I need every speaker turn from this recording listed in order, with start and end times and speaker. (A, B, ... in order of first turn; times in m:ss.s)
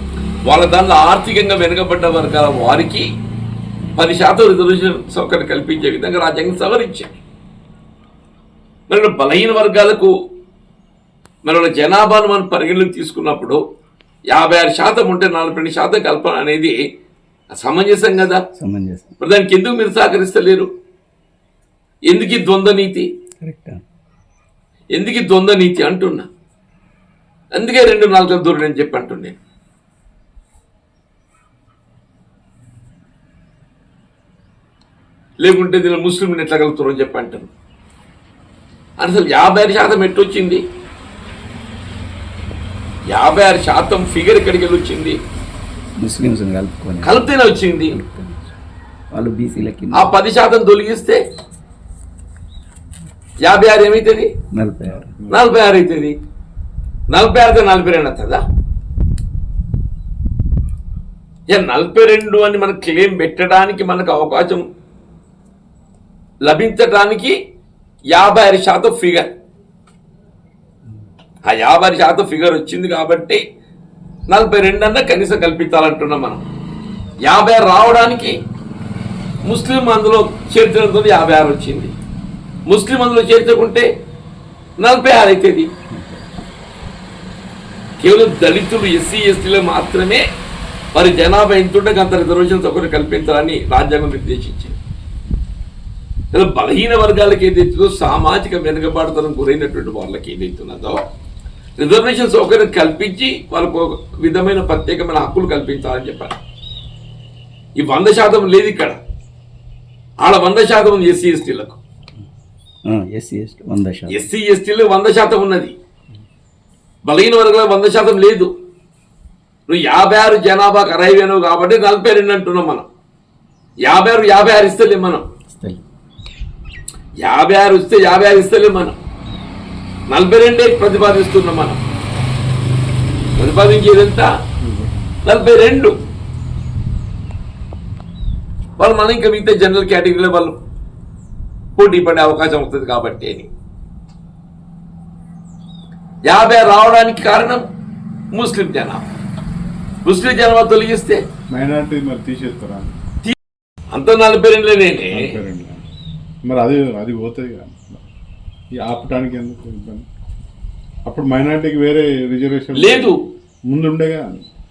0:00.4-0:03.1 A
0:04.0-0:07.1 A
0:08.9-0:10.1 A
0:11.4-0:13.6 A
0:14.3-0:16.8 A
0:17.5-0:18.4 A
0:18.6-0:19.1 B
0:19.2-0:20.7 A
0:22.1-0:23.1 A
0:23.4-0:23.8 B
0:24.9-0:26.3 A
0:27.6-0:29.4 A
0:35.4-0:37.5 A
0:39.0-0:40.6 A
0:43.1-0:45.2 A
0:46.0-0:47.3 B
0:47.0-0:48.0 A
0:47.9-0:48.5 B
0:49.1-0:50.1 B
0:49.9-0:51.2 A
0:53.4-0:54.3 A
0:54.5-0:55.2 B
0:55.3-0:56.2 A
0:57.1-0:58.4 A
1:01.5-1:04.6 A
1:06.4-1:07.4 A
1:08.1-1:09.3 A
1:11.5-1:13.4 A
1:14.3-1:16.4 A
1:17.2-1:18.4 A
1:19.4-1:21.9 A
1:22.7-1:23.9 A
1:24.8-1:25.7 A
1:25.9-1:26.2 B
1:28.0-1:30.2 A
1:30.9-1:34.8 A
1:36.3-1:41.0 A
1:41.8-1:46.4 A
1:47.8-1:49.0 A
1:50.2-1:51.8 A
1:52.9-1:54.2 B
1:54.1-1:55.8 A
1:57.0-1:58.5 A
1:59.7-2:02.9 A
2:03.8-2:05.2 A
2:05.5-2:05.8 B
2:07.2-2:09.0 A
2:10.1-2:11.8 A
2:13.4-2:14.3 A
2:14.6-2:15.2 C
2:15.2-2:16.0 A
2:18.8-2:20.6 A
2:21.8-2:23.5 A
2:26.3-2:27.6 A
2:28.3-2:29.0 A
2:30.0-2:31.2 A
2:31.5-2:32.9 C
2:33.9-2:35.3 A
2:35.1-2:35.8 C
2:36.5-2:38.1 C
2:38.8-2:40.1 C
2:41.1-2:43.1 C
2:42.8-2:43.2 A
2:43.7-2:44.4 C